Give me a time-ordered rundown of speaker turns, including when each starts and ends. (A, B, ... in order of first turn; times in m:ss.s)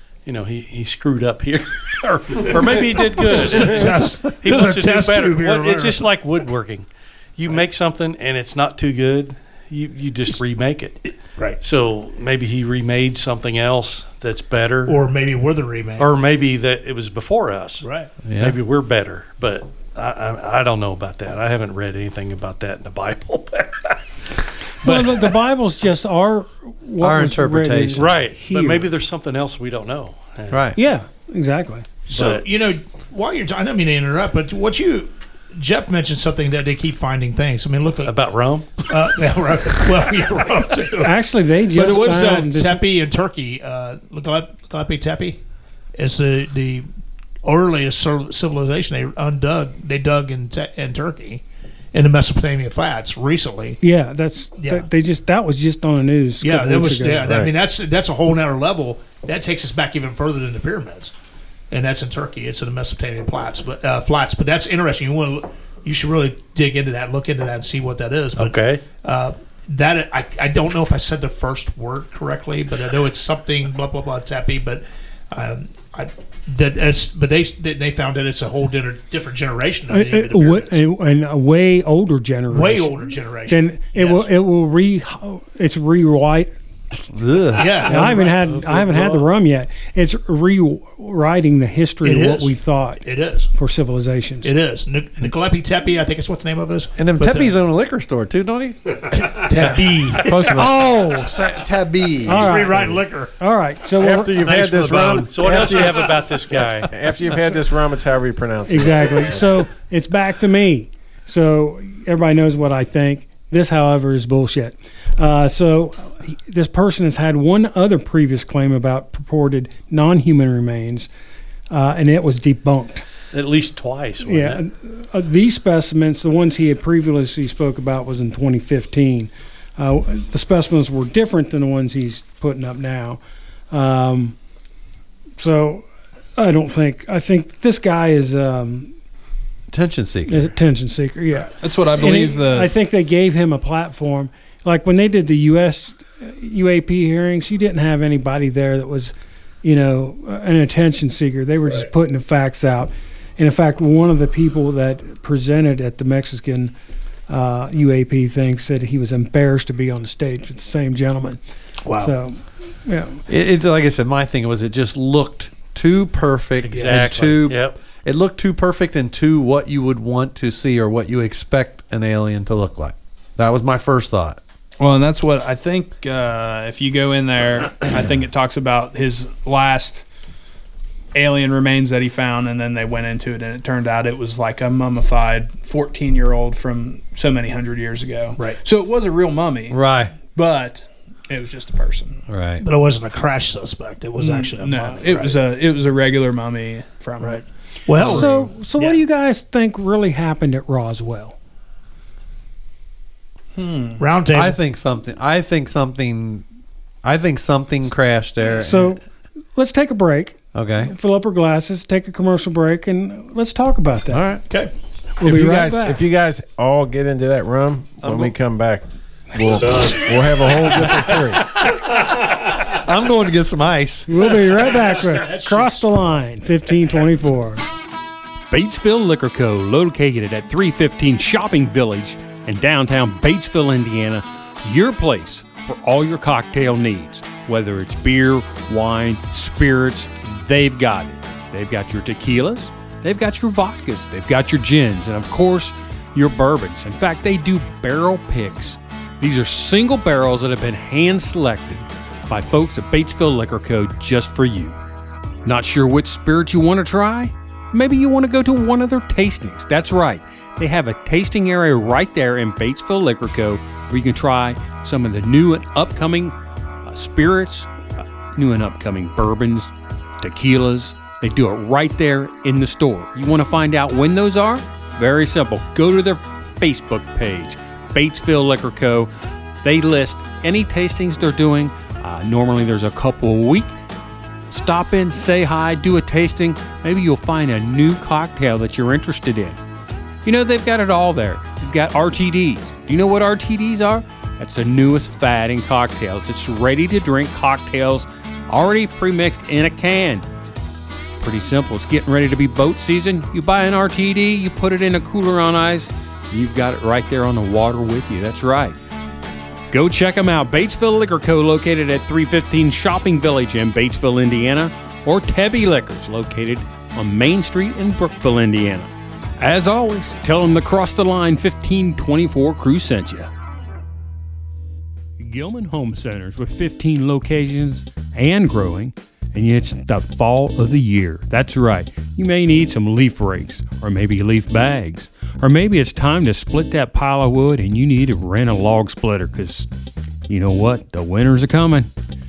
0:00.2-0:06.9 A
0:03.1-0:06.0 B
0:07.4-0:11.1 A
0:11.6-0:15.0 A
0:14.9-0:16.1 B
0:16.0-0:17.9 A
0:17.8-0:18.1 B
0:18.2-0:18.6 C
0:18.4-0:24.0 A
0:24.8-0:25.3 A
0:24.8-0:28.9 D
0:27.0-0:28.2 C
0:28.0-0:30.6 A
0:30.5-0:30.8 C
0:30.8-0:31.8 D
0:32.1-0:38.1 B
0:32.1-0:32.5 A
0:38.0-0:38.9 A
0:38.9-0:41.1 B
0:41.0-0:42.8 D
0:41.7-0:45.4 B
0:46.0-0:46.9 B
0:47.4-0:51.4 B
0:51.9-0:53.8 B
0:53.8-0:57.3 D
0:54.6-0:54.9 B
0:56.4-1:01.1 B
0:57.2-0:57.5 E
1:01.7-1:20.8 B
1:08.4-1:08.8 A
1:19.9-1:26.5 D
1:22.5-1:24.3 B
1:27.1-1:27.9 C
1:27.5-1:29.1 B
1:27.8-1:34.5 D
1:32.0-1:33.5 B
1:34.4-1:37.6 B
1:37.0-1:39.0 C
1:39.1-1:40.6 B
1:39.6-1:42.8 C
1:40.3-1:40.7 E
1:40.6-1:41.4 D
1:42.2-1:44.4 D
1:42.3-1:43.3 B
1:44.0-1:49.6 E
1:44.4-1:46.9 A
1:48.7-2:01.1 D
2:01.7-2:03.0 D
2:03.3-2:04.6 A
2:04.2-2:13.2 D
2:13.7-2:14.4 D
2:15.4-2:15.8 D
2:16.4-2:18.9 D
2:19.7-2:20.5 C
2:20.3-2:36.8 D
2:21.6-2:22.7 F
2:37.3-2:41.4 D
2:41.8-2:42.1 B
2:42.0-2:43.2 D
2:43.3-2:54.4 C
2:46.6-2:47.8 A
2:46.7-2:47.2 B
2:54.8-3:00.0 F
3:01.1-3:12.2 F
3:09.7-3:10.2 C
3:12.3-3:12.6 C
3:12.6-3:15.4 B
3:14.2-3:17.4 F
3:17.2-3:19.0 B
3:18.0-3:21.4 D
3:23.6-3:24.0 F
3:24.0-3:24.6 B
3:24.3-3:26.4 C
3:27.0-3:28.9 C
3:28.6-3:29.0 D
3:29.6-3:34.3 D
3:30.5-3:30.9 C
3:34.1-3:34.4 C
3:35.2-3:41.4 E
3:35.2-3:36.0 D
3:38.0-3:38.3 C
3:42.6-3:44.1 C
3:44.1-3:47.6 D
3:44.3-3:45.9 B
3:48.5-4:14.8 G
4:15.4-4:39.1 G
4:39.6-4:43.8 G
4:44.5-4:49.6 G
4:50.2-5:00.3 G
5:01.2-5:08.8 G
5:09.7-5:23.3 G
5:25.2-5:39.7 G
5:40.3-5:41.9 G